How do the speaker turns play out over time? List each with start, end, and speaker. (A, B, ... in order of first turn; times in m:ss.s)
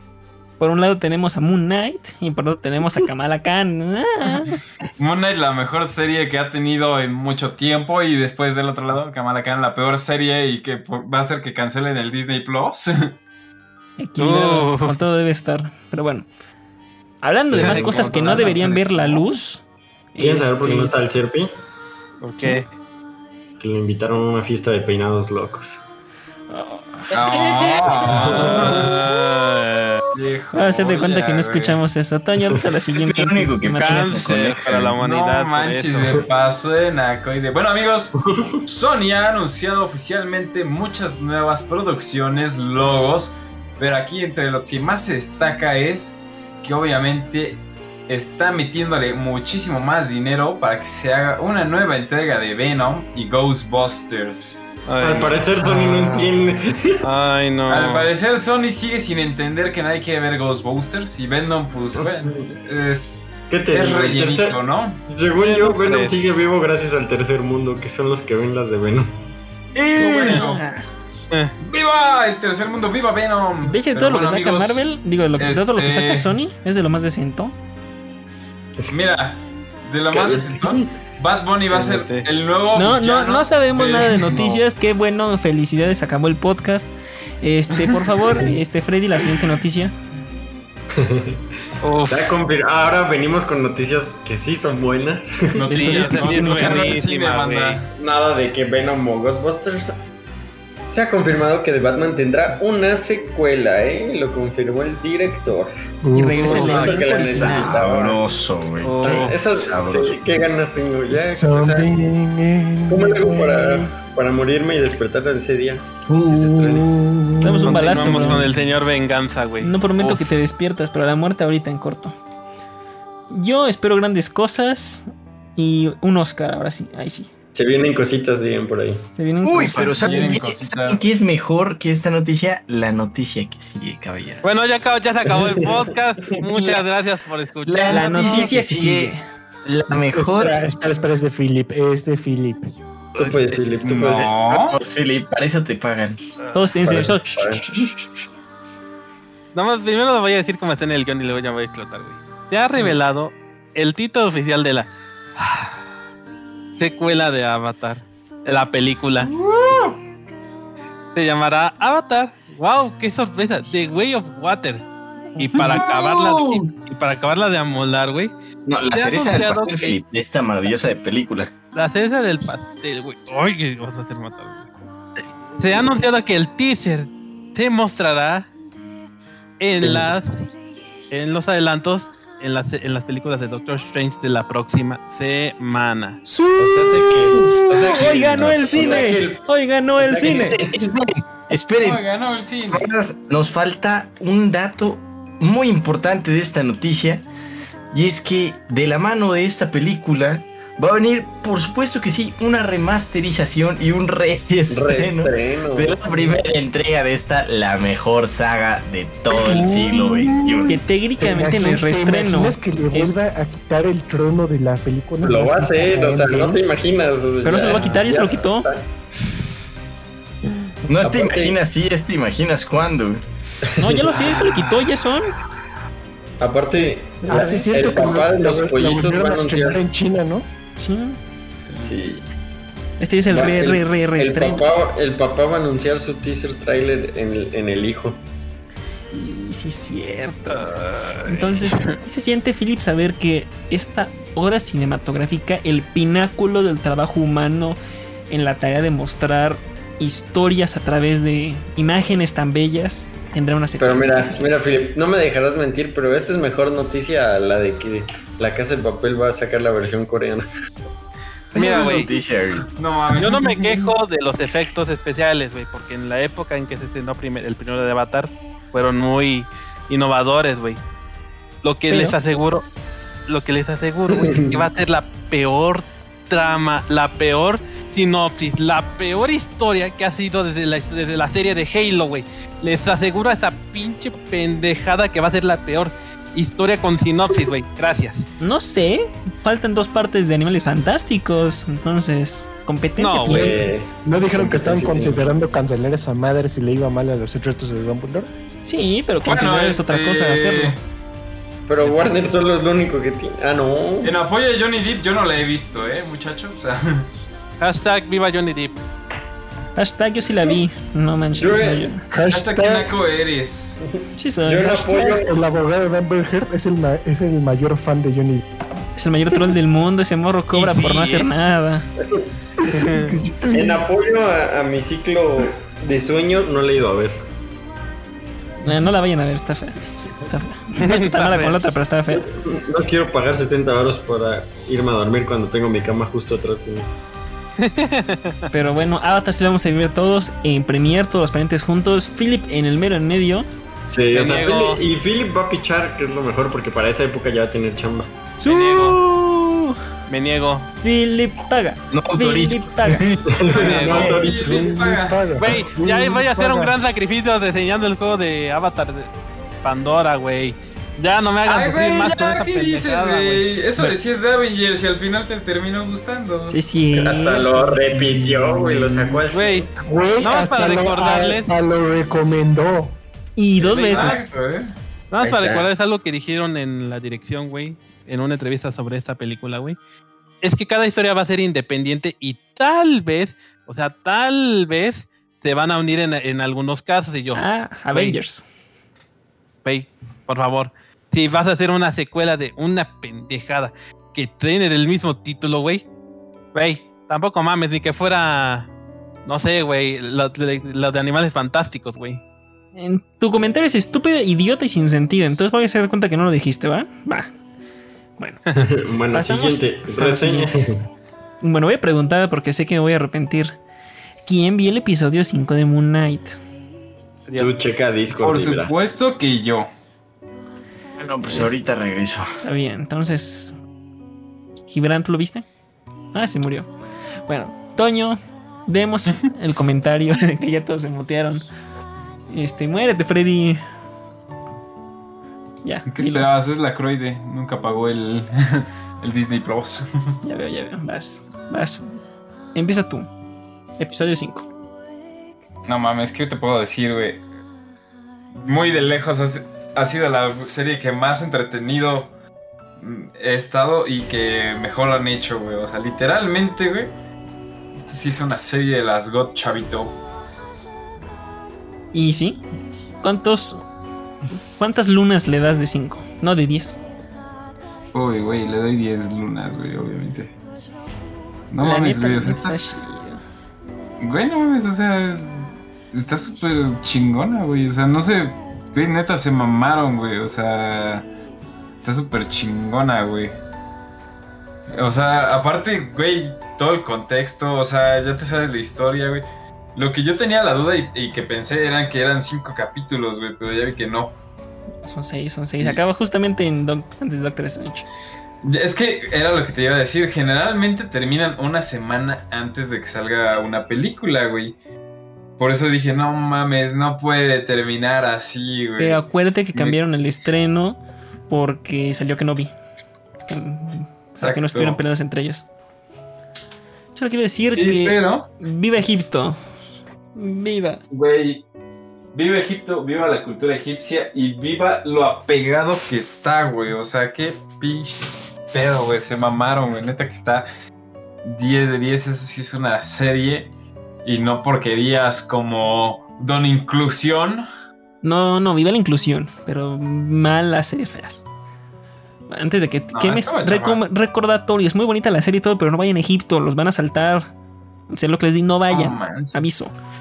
0:00.6-0:04.6 A
0:05.0-0:13.1 B
0:14.0-0:16.3 A
0:14.2-0:15.0 C
0:17.2-0:19.6 A
0:17.5-0:19.2 D
0:17.6-0:18.6 C
0:20.2-0:20.9 A
0:20.2-0:21.5 D
0:22.2-0:22.7 C
0:22.4-0:22.6 A
0:23.6-0:25.8 D
0:26.5-0:27.2 A
0:27.1-0:28.8 B
0:28.0-0:28.8 D
0:28.3-0:28.9 A
0:28.4-0:30.0 C
0:30.1-0:31.8 B
0:30.5-0:34.3 A
0:33.0-0:35.0 E
0:33.8-0:36.2 C
0:35.0-0:54.6 B
0:38.2-0:38.6 D
0:54.9-0:55.5 C
0:55.0-0:57.0 D
0:55.6-0:56.3 F
0:57.0-0:58.1 C
0:57.7-1:05.0 B
1:02.0-1:02.5 D
1:03.5-1:09.1 D
1:05.4-1:06.2 C
1:09.8-1:10.6 B
1:10.0-1:10.9 A
1:11.6-1:14.8 B
1:13.7-1:17.6 A
1:15.4-1:16.3 B
1:18.9-1:24.6 B
1:20.1-1:21.0 D
1:21.7-1:22.3 C
1:22.8-1:26.9 A
1:27.4-1:30.0 A
1:27.8-1:28.0 B
1:30.9-1:31.4 D
1:31.8-1:32.3 C
1:32.0-1:35.7 D
1:35.5-1:37.9 B
1:35.7-1:37.0 A
1:35.7-1:37.8 C
1:38.0-1:40.0 D
1:40.9-1:45.7 D
1:46.0-1:47.7 F
1:46.1-1:47.8 A
1:46.3-1:48.2 D
1:46.4-1:50.2 E
1:48.8-1:49.4 C
1:49.0-1:52.1 D
1:51.2-1:53.9 F
1:52.9-1:56.7 D
1:56.1-1:56.9 E
1:56.4-1:58.5 F
1:57.4-1:58.5 A
1:57.7-2:00.3 C
1:59.6-2:02.2 A
2:03.3-2:07.3 A
2:07.5-2:09.1 D
2:09.2-2:10.4 A
2:09.4-2:14.6 E
2:09.9-2:11.0 B
2:14.4-2:18.5 C
2:15.3-2:15.7 D
2:17.7-2:20.6 E
2:17.9-2:19.2 A
2:19.9-2:22.7 F
2:23.2-2:24.3 D
2:23.2-2:26.2 E
2:23.8-2:24.8 B
2:26.4-2:26.7 C
2:26.5-2:27.4 A
2:26.8-2:27.7 D
2:27.5-2:27.9 E
2:29.5-2:35.8 C
2:36.8-2:39.3 C
2:39.2-2:40.0 B
2:41.2-2:44.8 C
2:45.4-2:48.3 C
2:45.5-2:46.6 B
2:48.7-2:51.5 E
2:48.9-2:50.0 C
2:51.7-2:54.7 C
2:55.6-2:58.5 C
2:59.6-3:00.3 C
2:59.8-3:00.1 D
3:01.1-3:06.2 C
3:06.3-3:10.6 A
3:06.6-3:09.4 D
3:07.8-3:09.0 E
3:10.0-3:10.9 D
3:10.7-3:12.0 E
3:11.8-3:12.9 B
3:12.7-3:17.2 E
3:17.9-3:30.8 E
3:24.7-3:26.4 D
3:29.3-3:36.6 F
3:30.7-3:33.2 A
3:35.2-3:38.9 D
3:37.4-3:38.7 A
3:40.9-3:43.2 E
3:41.0-3:41.6 D
3:43.8-3:45.3 A
3:43.8-3:44.6 D
3:44.4-3:44.8 B
3:46.4-3:49.8 D
3:47.2-3:47.8 A
3:47.3-3:50.5 F
3:50.8-3:51.2 A
3:51.6-3:52.0 B
3:51.8-3:52.2 D
3:53.0-3:54.7 A
3:53.3-3:58.2 D
3:59.1-4:00.7 A
4:01.2-4:07.8 A
4:08.3-4:14.5 A
4:13.8-4:20.5 D
4:21.5-4:22.7 E
4:21.6-4:22.1 C
4:21.6-4:22.0 B
4:22.7-4:23.5 B
4:23.2-4:30.8 C
4:31.6-4:32.7 C
4:31.9-4:32.2 A
4:33.3-4:48.3 C
4:34.1-4:34.6 D
4:48.4-4:53.6 A
4:53.0-4:53.5 C
4:53.3-4:58.3 F
4:53.3-4:55.3 D
4:58.6-5:00.8 A
4:59.2-5:00.8 B
5:01.7-5:04.2 D
5:04.0-5:07.1 B
5:07.6-5:08.8 C
5:09.8-5:12.0 A
5:11.4-5:11.9 D
5:12.1-5:12.9 F
5:12.3-5:13.8 B
5:13.8-5:15.3 D
5:14.2-5:14.9 A
5:14.8-5:18.6 F
5:19.0-5:21.8 A
5:20.6-5:21.3 C
5:22.7-5:23.9 F
5:23.5-5:27.2 D
5:28.6-5:32.3 A
5:30.8-5:31.6 C
5:32.1-5:36.9 D
5:37.6-5:38.4 C
5:38.5-5:43.5 A
5:43.9-5:48.1 D
5:44.1-5:44.8 C
5:48.4-5:49.8 A
5:48.4-5:49.0 C
5:50.1-5:50.7 C
5:50.8-5:53.0 A
5:51.9-5:54.2 E
5:53.3-5:54.7 D
5:53.5-5:55.4 B
5:53.6-5:54.1 C
5:54.3-5:56.8 F
5:55.4-5:59.1 C
5:59.6-6:03.4 C
6:01.4-6:06.6 B
6:06.5-6:07.8 A
6:06.9-6:09.7 D
6:07.9-6:13.0 F
6:09.3-6:09.7 C
6:10.2-6:11.5 C
6:13.4-6:14.2 A
6:13.6-6:14.7 B
6:13.9-6:14.2 C
6:15.1-6:19.8 C
6:15.2-6:15.7 D
6:20.4-6:28.2 C
6:27.3-6:28.4 A
6:29.6-6:35.8 C
6:36.5-6:38.7 C
6:39.3-6:42.2 C
6:42.8-6:47.3 A
6:48.6-6:50.8 D
6:49.1-6:50.5 A
6:51.4-6:53.6 A
6:54.3-6:56.4 A
6:57.3-6:57.6 C
6:57.4-6:58.8 D
6:58.2-6:59.7 B
7:01.0-7:02.3 E
7:01.3-7:01.6 A
7:02.4-7:03.6 A
7:04.7-7:05.5 A
7:06.1-7:06.7 A
7:07.3-7:11.5 A
7:12.3-7:13.6 A
7:15.6-7:16.3 A
7:15.9-7:19.9 B
7:20.2-7:22.0 A
7:22.5-7:23.1 A
7:23.8-7:24.5 A
7:25.7-7:27.2 B
7:28.4-7:32.1 B
7:32.8-7:36.9 B
7:37.8-7:40.0 B
7:41.9-7:42.4 A
7:43.0-7:43.6 A
7:44.6-7:46.8 A
7:47.9-7:50.4 B
7:51.5-7:52.6 B
7:51.6-7:53.2 A
7:54.0-8:01.1 B
8:01.8-8:03.4 B
8:04.7-8:14.2 B
8:14.8-8:17.9 A
8:18.4-8:24.6 B
8:25.4-8:29.0 B
8:28.8-8:30.8 A
8:31.3-8:32.5 A
8:33.3-8:35.4 A
8:34.2-8:34.8 B
8:37.0-8:39.4 A
8:37.5-8:38.3 B
8:40.2-8:40.8 A
8:40.9-8:41.4 B
8:42.1-8:48.0 B
8:48.5-8:50.5 B
8:51.2-8:53.5 B
8:54.0-8:57.5 B
8:58.0-9:01.2 A
9:02.3-9:07.3 A
9:02.9-9:03.8 B
9:07.9-9:09.7 A
9:08.7-9:09.4 B